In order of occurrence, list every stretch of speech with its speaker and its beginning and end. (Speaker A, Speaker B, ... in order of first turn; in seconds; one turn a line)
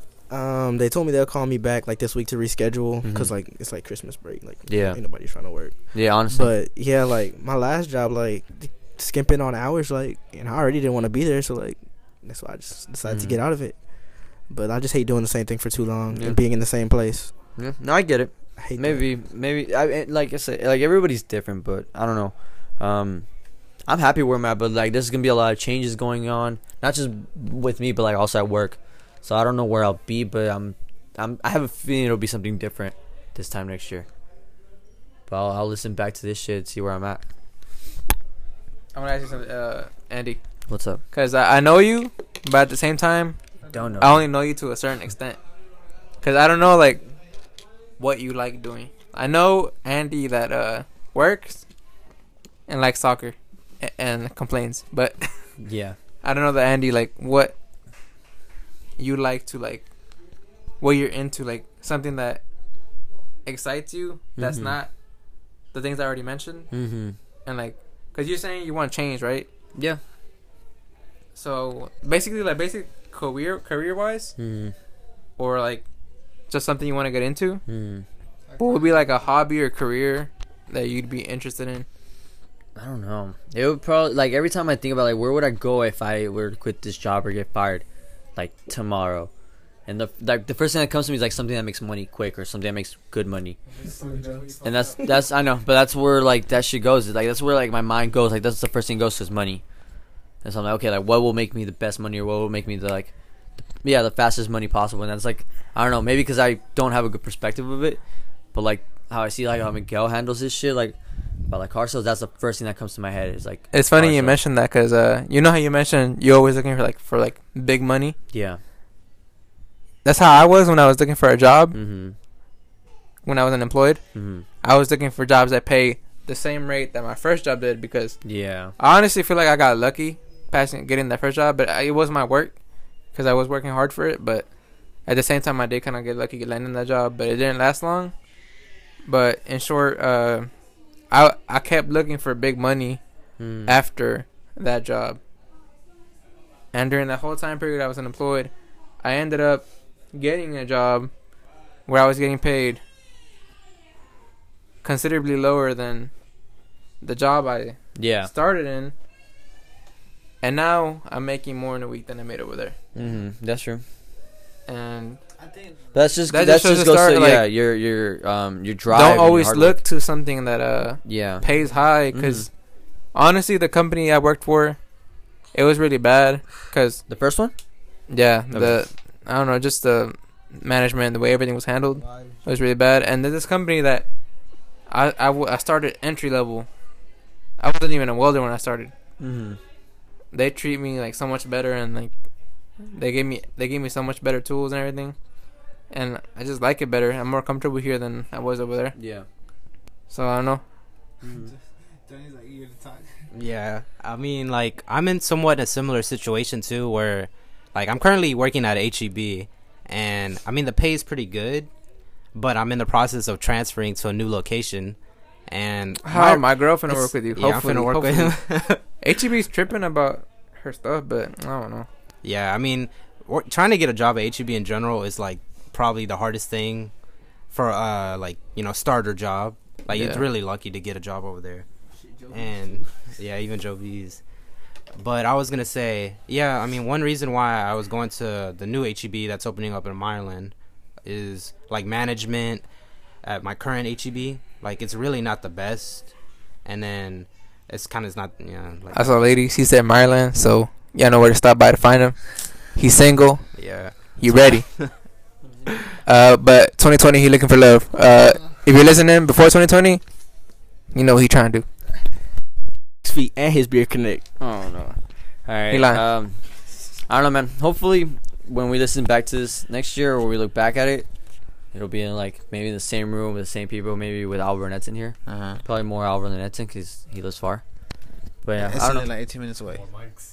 Speaker A: 0.3-13.8
Speaker B: 3.0-3.3
Speaker B: 4.7-5.0
Speaker B: 5.9-6.5
Speaker B: 13.1-13.4
Speaker A: 14.5-17.3
Speaker B: 16.1-16.4
Speaker B: 17.6-23.3
Speaker A: 18.6-19.1
Speaker B: 23.9-34.1
Speaker B: 35.3-37.2
Speaker C: 38.9-40.4
Speaker B: 40.7-41.0
Speaker C: 41.1-43.4
Speaker D: 43.6-44.0
Speaker B: 43.7-44.2
Speaker C: 44.0-45.4
Speaker C: 46.2-47.0
Speaker C: 48.0-51.6
Speaker C: 52.7-55.3
Speaker B: 55.6-56.0
Speaker C: 56.2-57.5
Speaker C: 59.0-59.9
Speaker C: 60.8-62.4
Speaker C: 63.5-64.9
Speaker B: 64.4-64.8
Speaker C: 65.7-66.7
Speaker B: 66.7-67.2
Speaker C: 67.5-69.5
Speaker B: 69.8-70.0
Speaker C: 71.3-74.3
Speaker B: 74.4-74.7
Speaker C: 75.4-75.8
Speaker C: 76.5-77.6
Speaker B: 77.7-78.0
Speaker D: 78.5-79.1
Speaker C: 78.6-81.8
Speaker B: 82.8-87.8
Speaker B: 88.4-89.3
Speaker B: 89.9-93.6
Speaker D: 93.7-95.0
Speaker A: 93.8-94.5
Speaker B: 94.6-99.6
Speaker B: 100.4-103.1
Speaker B: 103.8-108.0
Speaker B: 108.5-111.0
Speaker B: 111.5-114.4
Speaker C: 113.7-118.2
Speaker B: 118.3-118.6
Speaker C: 120.0-121.8
Speaker B: 121.7-122.2
Speaker C: 123.2-124.0
Speaker B: 124.1-124.4
Speaker C: 124.6-128.2
Speaker B: 128.2-128.7
Speaker C: 128.8-132.5
Speaker C: 133.2-134.5
Speaker C: 135.1-138.1
Speaker C: 139.1-140.5
Speaker C: 141.1-143.0
Speaker B: 143.4-143.8
Speaker C: 143.7-145.2
Speaker C: 146.7-148.5
Speaker C: 149.0-151.1
Speaker C: 151.9-152.8
Speaker C: 154.8-156.1
Speaker C: 157.0-158.9
Speaker B: 158.0-158.3
Speaker C: 160.4-162.8
Speaker B: 162.9-163.8
Speaker C: 164.7-165.2
Speaker D: 165.4-166.0
Speaker B: 165.9-169.8
Speaker C: 166.3-167.5
Speaker C: 168.9-172.5
Speaker B: 171.1-171.4
Speaker D: 171.4-171.8
Speaker B: 172.1-172.5
Speaker C: 173.1-174.8
Speaker C: 175.5-177.0
Speaker B: 177.1-177.5
Speaker C: 178.1-184.1
Speaker B: 178.5-178.8
Speaker C: 184.9-186.7
Speaker C: 187.6-188.9
Speaker B: 189.2-189.6
Speaker C: 190.3-192.1
Speaker C: 192.9-195.2
Speaker C: 195.9-199.0
Speaker B: 198.9-199.2
Speaker C: 200.1-200.6
Speaker B: 201.2-201.5
Speaker D: 201.2-203.1
Speaker E: 203.3-211.7
Speaker E: 212.3-215.0
Speaker E: 215.5-218.8
Speaker C: 216.0-221.9
Speaker E: 222.2-226.9
Speaker E: 227.5-231.7
Speaker B: 229.9-230.2
Speaker E: 232.3-234.2
Speaker E: 235.0-240.5
Speaker E: 241.0-242.7
Speaker E: 243.2-246.1
Speaker E: 246.7-249.3
Speaker C: 248.9-254.8
Speaker E: 253.6-254.2
Speaker C: 255.9-260.0
Speaker C: 260.9-261.6
Speaker A: 263.0-264.2
Speaker B: 264.4-266.4
Speaker C: 265.7-266.0
Speaker B: 267.1-271.1
Speaker B: 271.7-277.6
Speaker D: 275.2-275.6
Speaker B: 278.4-279.1
Speaker D: 278.6-279.9